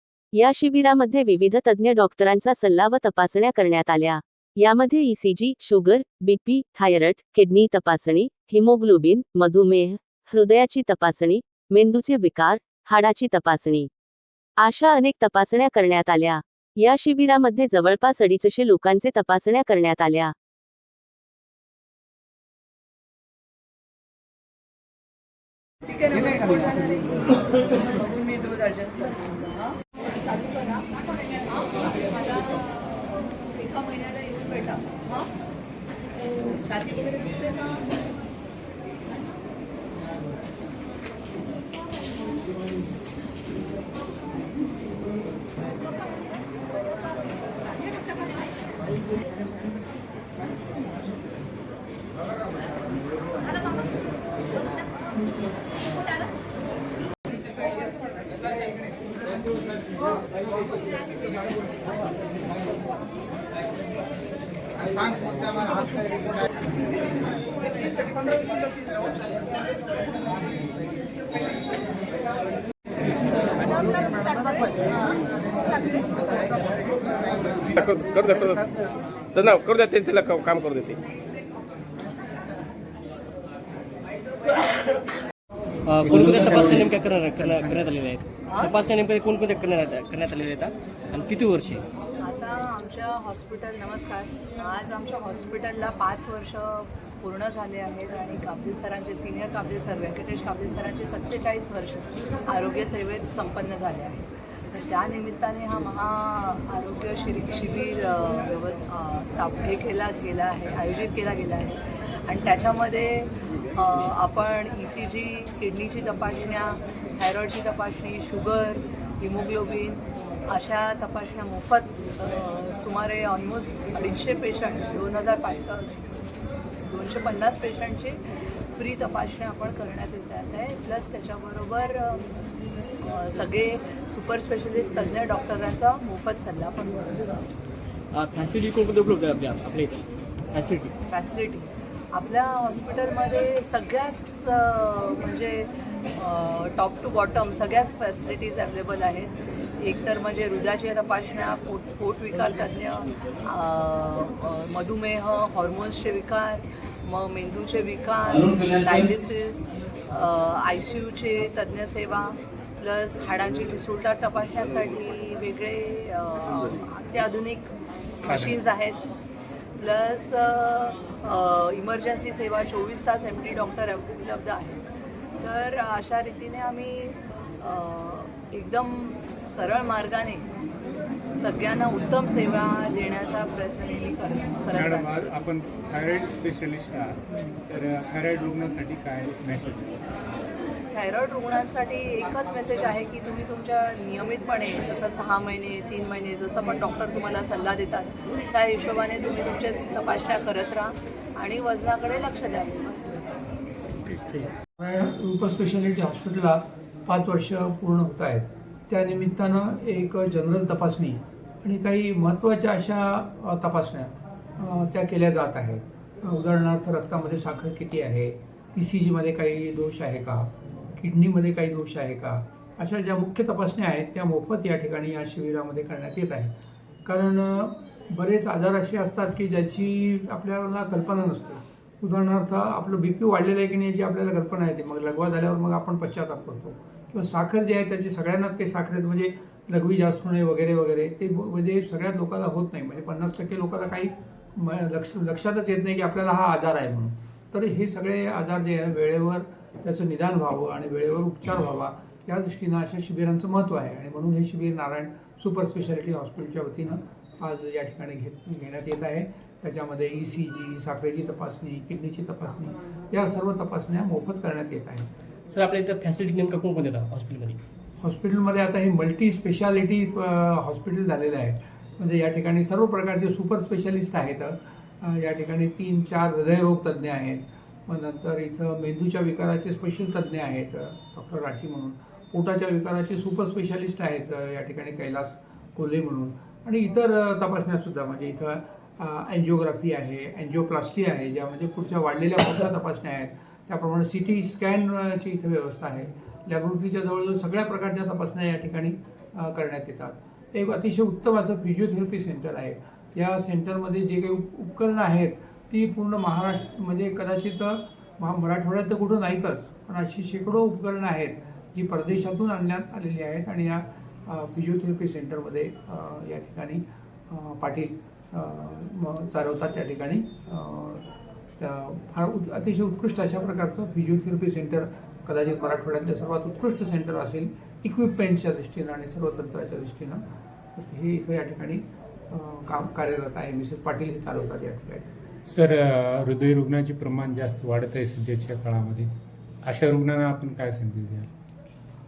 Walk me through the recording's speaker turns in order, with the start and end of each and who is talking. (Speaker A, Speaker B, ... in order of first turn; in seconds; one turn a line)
Speaker A: 0.4-13.9
Speaker A: 14.6-20.3
Speaker B: 25.9-35.3
Speaker B: 36.4-37.9
Speaker C: 77.8-78.7
Speaker C: 79.4-81.0
Speaker D: 85.9-91.8
Speaker E: 86.0-86.9
Speaker B: 88.5-88.7
Speaker B: 92.2-126.0
Speaker B: 126.8-128.2
Speaker B: 128.7-132.3
Speaker B: 133.0-137.2
Speaker D: 138.1-140.9
Speaker B: 141.1-167.7
Speaker D: 158.3-159.1
Speaker B: 168.2-169.0
Speaker E: 168.3-168.5
Speaker B: 169.8-174.8
Speaker B: 175.4-180.5
Speaker B: 181.3-185.2
Speaker E: 184.7-190.0
Speaker B: 187.3-187.6
Speaker B: 190.9-203.2
Speaker F: 204.8-226.5
Speaker F: 227.1-265.1
Speaker D: 265.5-267.6
Speaker F: 268.0-321.1
Speaker F: 321.6-330.2
Speaker F: 330.8-335.1
Speaker E: 335.5-339.1
Speaker E: 339.6-341.3